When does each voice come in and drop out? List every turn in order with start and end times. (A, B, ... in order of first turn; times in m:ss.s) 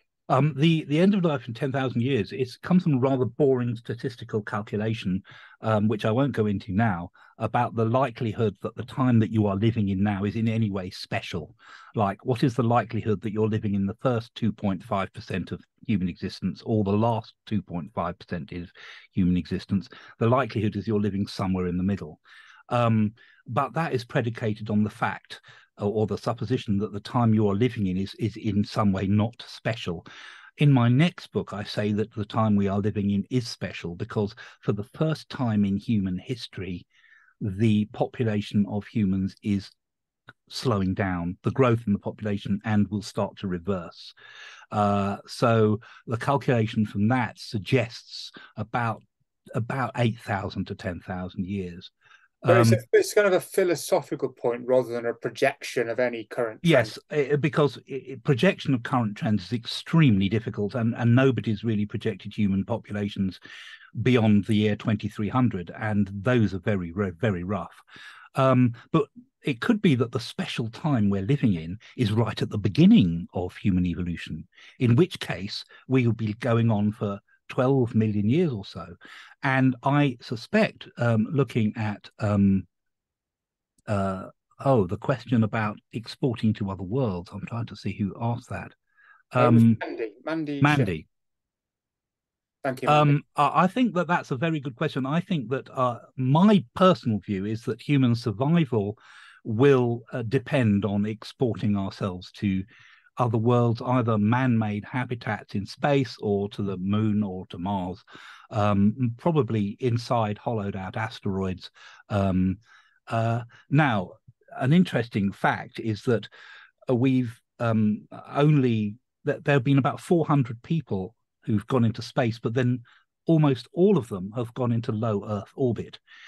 0:00.3-0:30.0 A
0:30.6-0:36.8 A
0:37.4-0:39.7 A
0:40.5-0:44.1 A
0:44.7-0:51.9 A
0:52.4-0:52.8 A
0:52.4-0:56.9 B
0:56.6-1:03.4 A
1:03.9-1:07.8 A
1:08.3-1:22.7 A
1:23.9-1:28.7 A
1:29.3-1:29.8 A
1:29.4-1:30.9 B
1:30.6-1:31.0 A
1:32.6-1:33.2 B
1:32.9-1:42.6 A
1:43.2-1:56.3 A
1:56.9-2:06.0 A